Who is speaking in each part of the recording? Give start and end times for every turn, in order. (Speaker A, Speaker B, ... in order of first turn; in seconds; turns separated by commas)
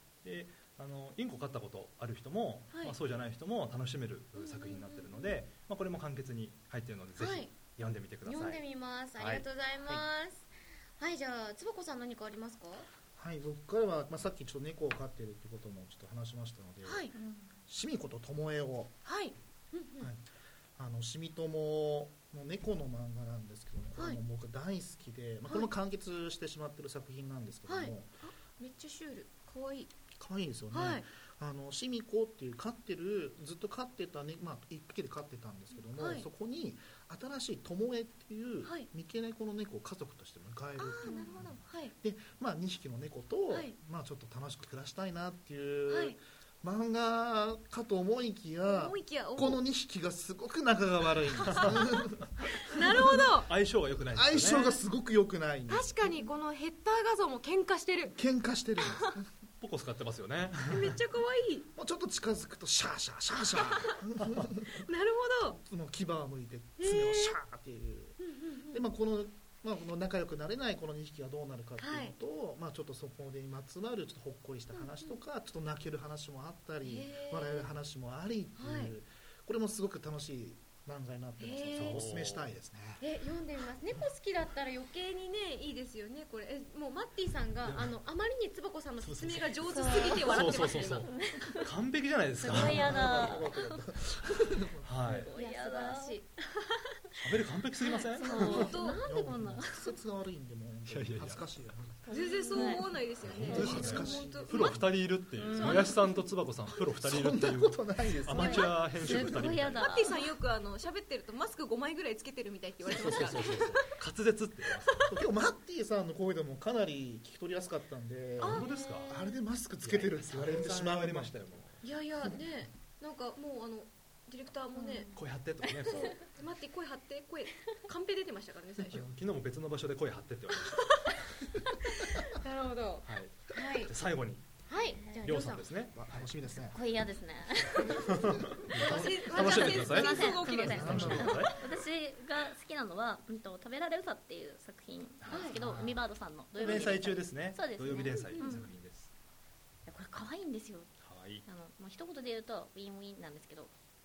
Speaker A: 0.2-8.6, Speaker B: 7.2-7.5, Speaker B: 8.2-12.9, Speaker A: 9.2-9.4, Speaker C: 13.2-17.1, Speaker B: 16.9-17.2, Speaker C: 17.7-18.9, Speaker B: 19.1-19.9, Speaker C: 20.8-28.1, Speaker D: 27.7-29.9, Speaker B: 28.6-29.6, Speaker C: 30.1-52.3, Speaker D: 30.7-31.0, Speaker D: 36.0-36.2, Speaker B: 40.8-41.9, Speaker D: 41.0-41.7, Speaker D: 45.9-46.1, Speaker D: 48.7-49.6, Speaker D: 51.5-52.0, Speaker D: 52.6-53.5, Speaker A: 53.2-54.8, Speaker C: 54.1-56.0, Speaker D: 55.7-58.1, Speaker C: 58.1-59.3, Speaker A: 59.6-61.0, Speaker D: 60.7-61.7, Speaker C: 61.8-64.8, Speaker D: 64.8-65.6, Speaker C: 65.6-68.2, Speaker D: 66.8-67.3, Speaker D: 68.2-68.8, Speaker C: 68.7-83.0, Speaker D: 76.8-77.7, Speaker D: 78.6-78.9, Speaker D: 81.4-82.0, Speaker A: 81.7-82.5, Speaker B: 83.0-84.7, Speaker D: 83.5-91.1, Speaker B: 87.0-89.1, Speaker A: 87.6-87.9, Speaker A: 89.0-93.4, Speaker E: 89.7-91.7, Speaker E: 92.4-93.8, Speaker C: 92.5-95.2, Speaker A: 94.8-95.3, Speaker E: 95.1-96.6, Speaker D: 95.4-95.7, Speaker B: 95.4-96.2, Speaker A: 97.2-98.8, Speaker E: 97.9-99.9, Speaker D: 98.2-99.0, Speaker B: 98.5-98.9, Speaker C: 99.0-102.0, Speaker A: 100.9-101.4, Speaker E: 102.0-104.4, Speaker D: 102.1-104.8, Speaker B: 102.3-102.7, Speaker C: 103.2-104.9, Speaker A: 103.2-109.8, Speaker E: 105.4-106.0, Speaker D: 105.5-106.2, Speaker C: 107.0-108.8, Speaker E: 108.3-110.3, Speaker D: 109.2-113.9, Speaker A: 112.8-115.1, Speaker C: 115.1-121.4, Speaker A: 118.4-119.1, Speaker D: 118.4-119.3, Speaker A: 119.8-121.8, Speaker D: 121.8-125.2, Speaker A: 125.1-126.2, Speaker D: 125.9-129.1, Speaker A: 128.9-131.2, Speaker D: 131.9-132.9, Speaker B: 132.4-133.0, Speaker A: 133.0-134.4, Speaker D: 133.5-133.9, Speaker B: 133.6-133.9, Speaker B: 134.7-135.6, Speaker A: 135.2-136.3, Speaker C: 135.9-136.8, Speaker E: 136.6-148.7, Speaker A: 138.1-141.6, Speaker D: 138.7-141.2, Speaker C: 140.7-141.5, Speaker A: 145.2-146.0, Speaker A: 146.5-149.1, Speaker E: 149.8-150.9, Speaker A: 151.0-151.4, Speaker E: 151.4-153.7